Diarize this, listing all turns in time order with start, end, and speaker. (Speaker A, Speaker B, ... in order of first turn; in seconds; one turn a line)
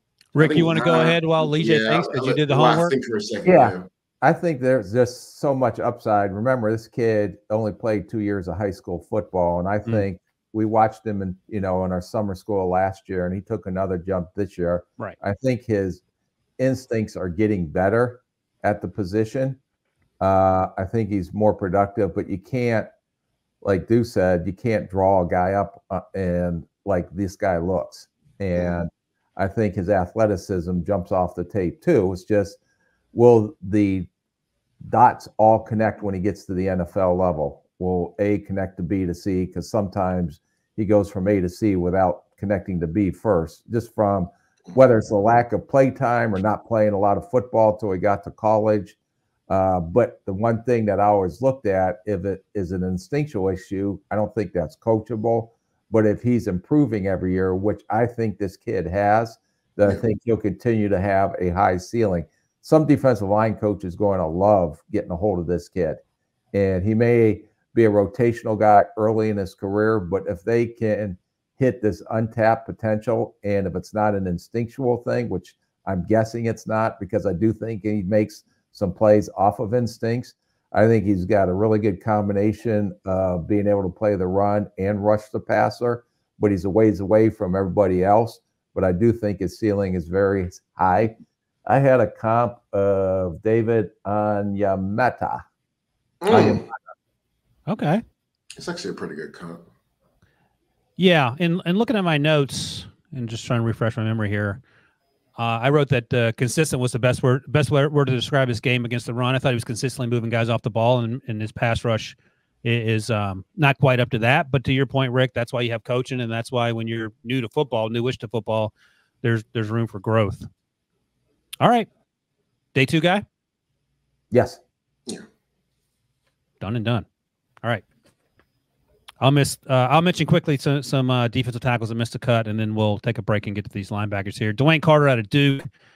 Speaker A: 0.3-2.9
Speaker B: 0.4-3.9
Speaker C: 3.5-16.0
Speaker C: 16.6-19.6
Speaker C: 20.2-22.9
Speaker C: 23.6-32.6
Speaker B: 28.6-28.8
Speaker C: 33.1-34.1
Speaker C: 34.8-49.0
Speaker C: 49.5-66.0
Speaker C: 66.5-91.2
Speaker C: 91.7-95.4
Speaker B: 96.2-96.7
Speaker C: 96.3-96.8
Speaker A: 97.7-98.0
Speaker B: 98.6-99.6
Speaker A: 101.0-104.6
Speaker A: 105.4-118.7
Speaker A: 119.2-120.5
Speaker A: 121.6-121.9
Speaker A: 122.8-123.2
Speaker C: 124.3-124.6
Speaker A: 126.6-127.0
Speaker A: 129.2-135.7